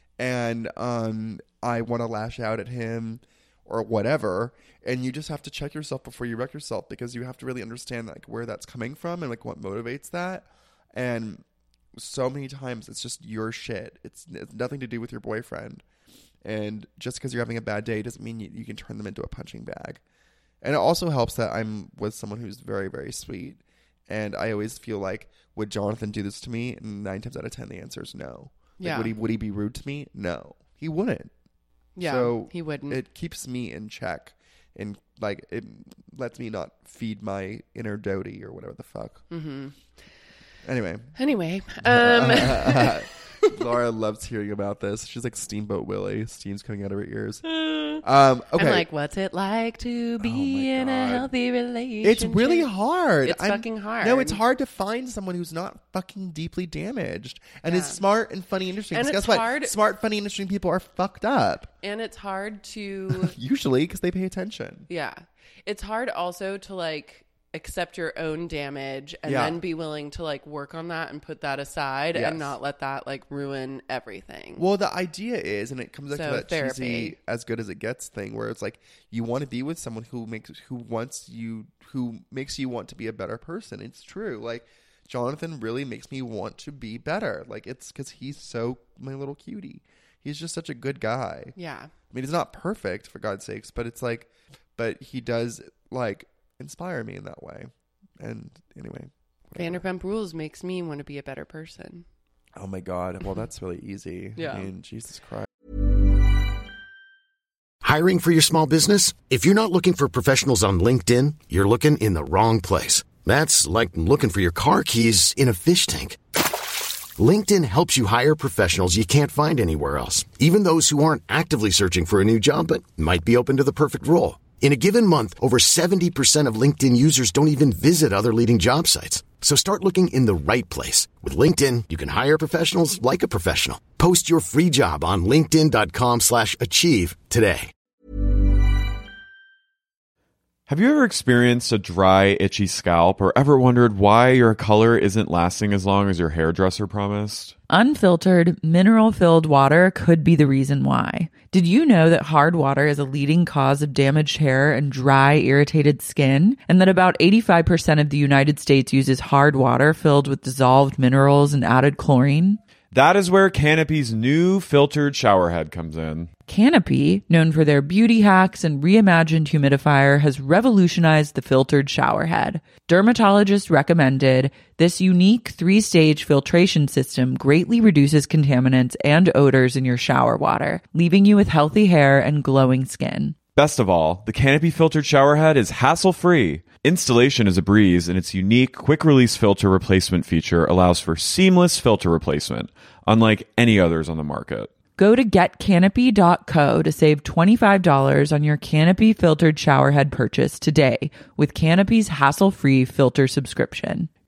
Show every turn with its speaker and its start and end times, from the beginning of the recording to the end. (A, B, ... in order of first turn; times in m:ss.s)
0:00.2-0:11.4 A
0:12.0-0:15.8 A
0:16.4-0:20.0 A
0:20.6-0:31.3 A
0:28.8-0:29.1 B
0:32.0-0:33.0 B
0:32.0-0:39.2 A
0:39.3-0:39.8 B
0:40.6-0:41.2 A
0:41.2-0:43.4 B
0:41.8-0:47.4 A
0:47.4-0:48.0 B
0:48.0-0:48.8 A
0:48.6-0:52.7 B
0:50.2-0:51.3 A
0:52.0-1:01.7 A
0:53.2-0:54.4 B
0:57.6-0:58.0 B
0:58.9-0:59.8 B
1:01.8-1:03.3 B
1:03.1-1:04.9 A
1:04.9-1:14.6 B
1:09.2-1:09.6 A
1:12.1-1:12.5 A
1:14.6-1:31.5 A
1:16.1-1:17.2 B
1:31.6-1:31.9 B
1:32.1-1:39.8 A
1:39.6-1:42.0 B
1:42.5-1:45.5 A
1:44.4-1:44.7 B
1:47.8-2:17.7 C
2:20.7-2:27.6 D
2:27.7-2:42.6 E
2:42.9-2:46.3 D
2:46.5-3:03.4 E
3:03.5-3:14.7 D
3:15.0-3:24.1 E